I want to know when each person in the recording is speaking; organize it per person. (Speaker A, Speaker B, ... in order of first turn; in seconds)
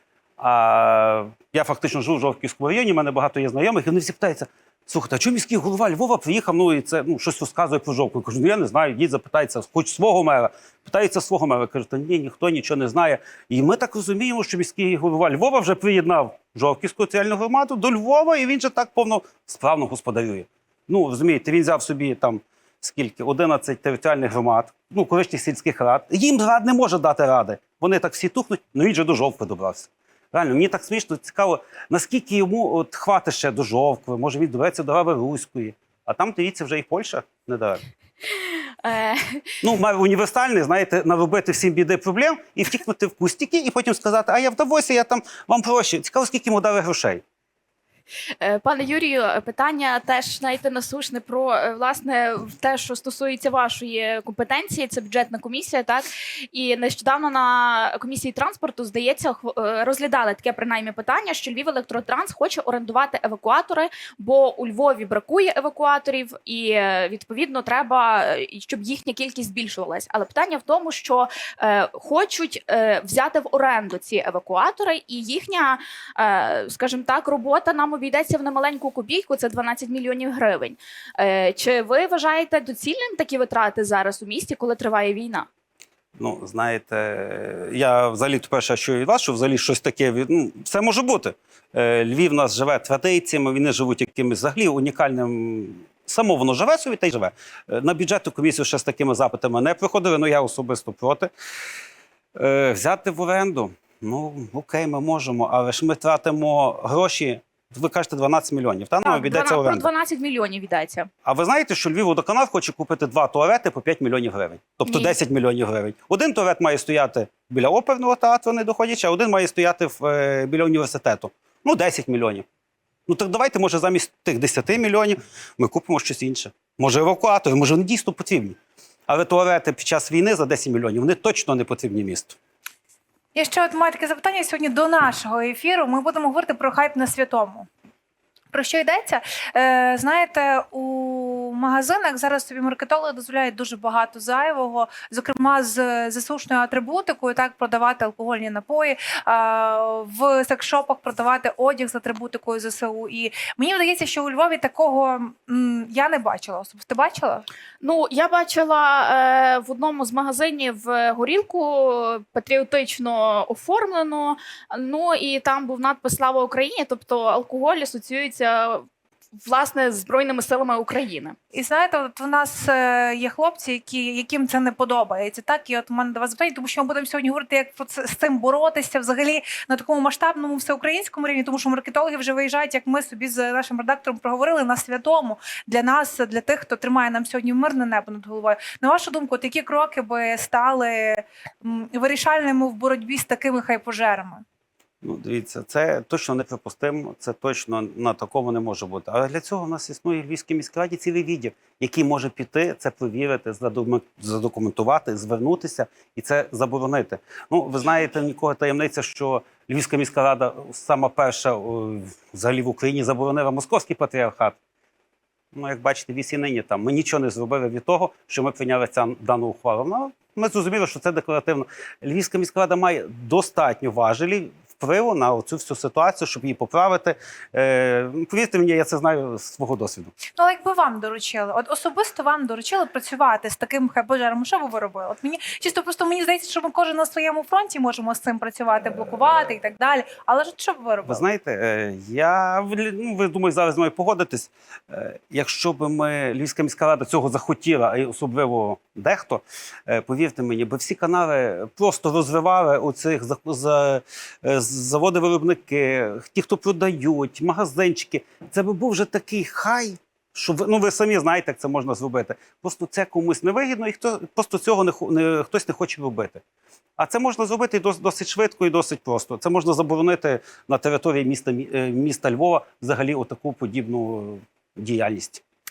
Speaker A: 0.4-37.8, 39.6-47.2, 86.2-101.3, 102.3-109.9, 111.2-122.5, 123.1-128.6, 129.1-132.4, 195.0-214.6, 215.5-230.1, 241.1-266.4, 267.0-275.4
Speaker B: 38.8-39.4, 48.4-85.5, 109.0-111.1, 114.8-115.1, 157.8-168.8, 169.4-171.3
Speaker C: 133.3-137.7, 138.5-157.4, 171.5-194.4, 230.3-241.2